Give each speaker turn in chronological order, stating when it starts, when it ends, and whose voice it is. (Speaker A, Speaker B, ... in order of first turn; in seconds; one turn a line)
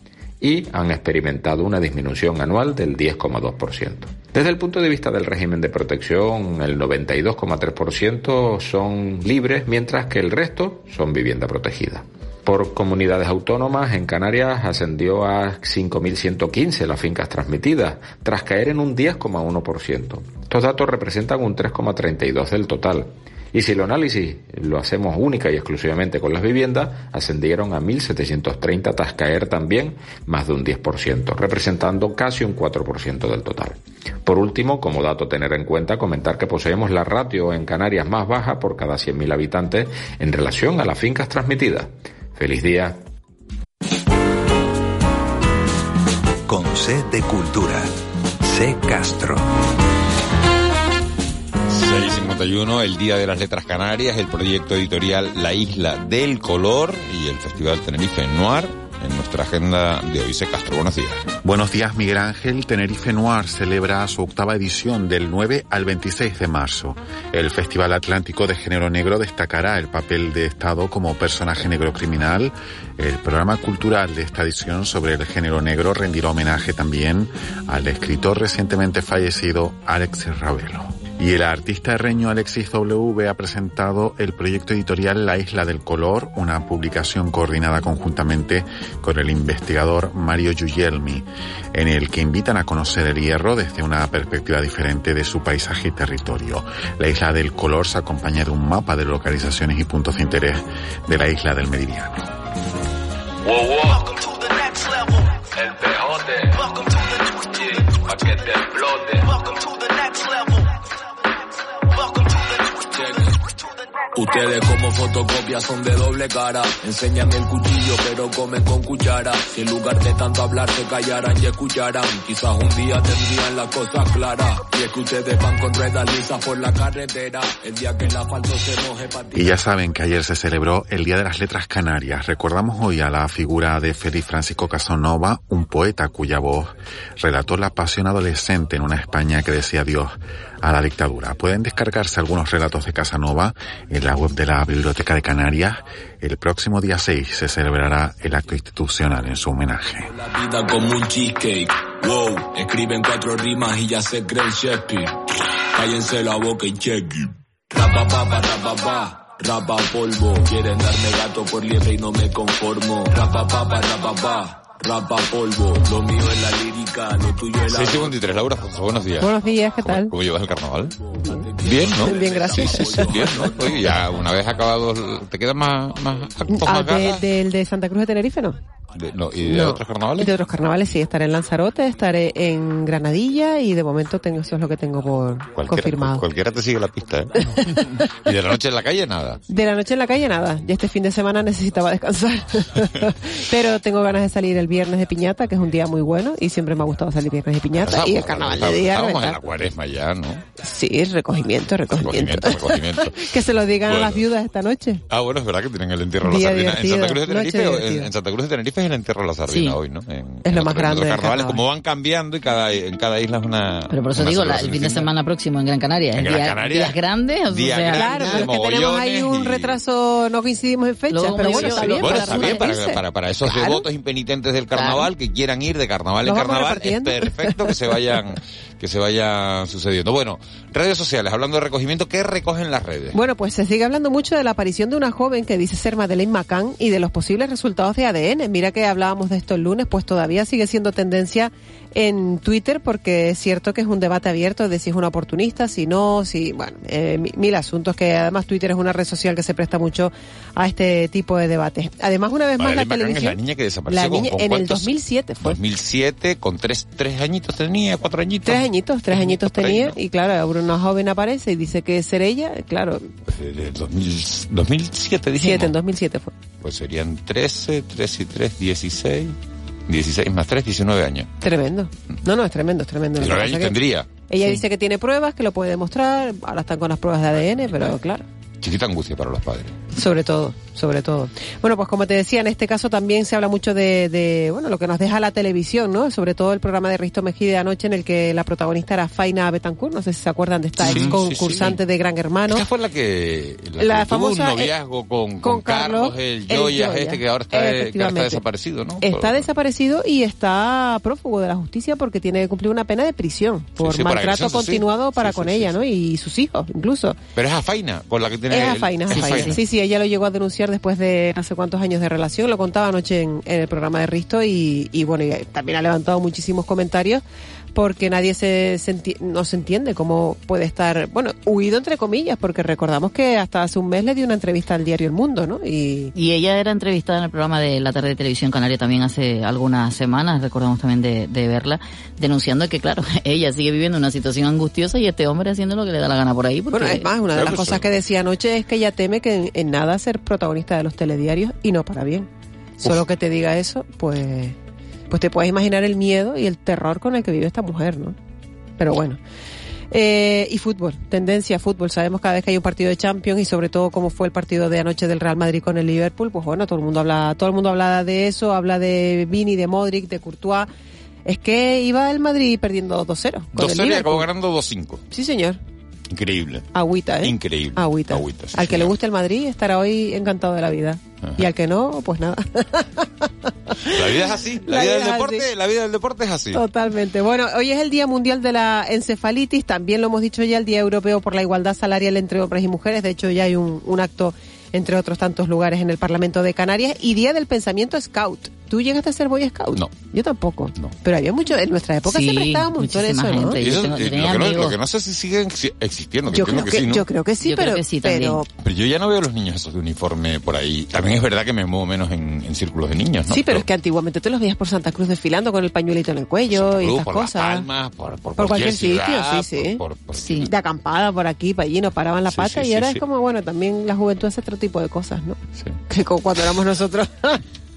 Speaker A: 0.4-43.0
Speaker B: 46.5-47.9
Speaker B: 48.4-49.5
Speaker C: 51.7-61.2
Speaker D: 61.4-102.2
Speaker E: 103.4-104.3
Speaker E: 105.5-110.5
Speaker E: 112.1-113.4
Speaker E: 114.1-129.5
Speaker D: 129.3-150.1
Speaker E: 150.1-155.2
Speaker E: 155.7-168.5
Speaker C: 167.7-170.9
Speaker F: 169.2-170.1
Speaker E: 171.0-174.2
Speaker F: 171.3-173.5
Speaker C: 171.6-177.2
Speaker F: 176.5-178.6
Speaker C: 178.9-180.3
Speaker F: 179.4-186.3
Speaker C: 185.5-189.4
Speaker F: 189.5-199.4
Speaker C: 197.8-200.4
Speaker F: 200.6-205.0
Speaker C: 201.9-203.3
Speaker C: 203.8-204.2
Speaker C: 205.1-215.1
Speaker F: 206.2-208.1
Speaker G: 209.5-209.8
Speaker F: 210.4-211.6
Speaker G: 213.9-218.5
Speaker C: 216.2-217.0
Speaker C: 217.5-219.8
Speaker F: 217.9-222.9
Speaker G: 221.1-222.9
Speaker C: 221.4-233.2
Speaker F: 223.4-223.9
Speaker G: 224.8-225.1
Speaker F: 226.2-227.9
Speaker F: 233.1-255.6
Speaker C: 252.6-254.9
Speaker C: 255.4-260.0
Speaker F: 258.4-263.1
Speaker C: 263.3-265.7
Speaker F: 265.4-266.3
Speaker C: 266.6-269.4
Speaker C: 269.9-271.3
Speaker F: 271.4-278.2
Speaker C: 273.2-274.6
Speaker C: 277.4-277.9
Speaker C: 278.6-279.8
Speaker F: 279.9-292.6
Speaker C: 290.8-291.8
Speaker C: 292.5-299.5
Speaker F: 293.8-294.7
Speaker F: 295.4-298.4
Speaker F: 299.0-307.2
Speaker C: 303.8-305.8
Speaker C: 307.4-309.6
Speaker F: 308.5-317.2
Speaker G: 309.1-309.6
Speaker F: 317.7-326.1
Speaker G: 326.2-337.1
Speaker F: 336.7-342.3
Speaker C: 337.3-337.9
Speaker F: 342.8-344.6
Speaker F: 345.1-348.2
Speaker F: 348.8-349.2
Speaker F: 349.9-360.7
Speaker F: 361.2-364.3
Speaker C: 363.6-365.0
Speaker F: 365.1-365.6
Speaker C: 366.1-366.7
Speaker F: 366.7-375.5
Speaker C: 367.2-368.9
Speaker C: 373.9-376.6
Speaker F: 376.5-393.6
Speaker G: 392.1-394.8
Speaker C: 393.6-397.1
Speaker F: 396.3-398.5
Speaker G: 397.4-398.4
Speaker C: 398.6-403.7
Speaker F: 403.3-407.7
Speaker C: 406.5-410.5
Speaker F: 408.4-409.8
Speaker G: 410.1-410.5
Speaker F: 410.4-417.4
Speaker C: 412.3-413.0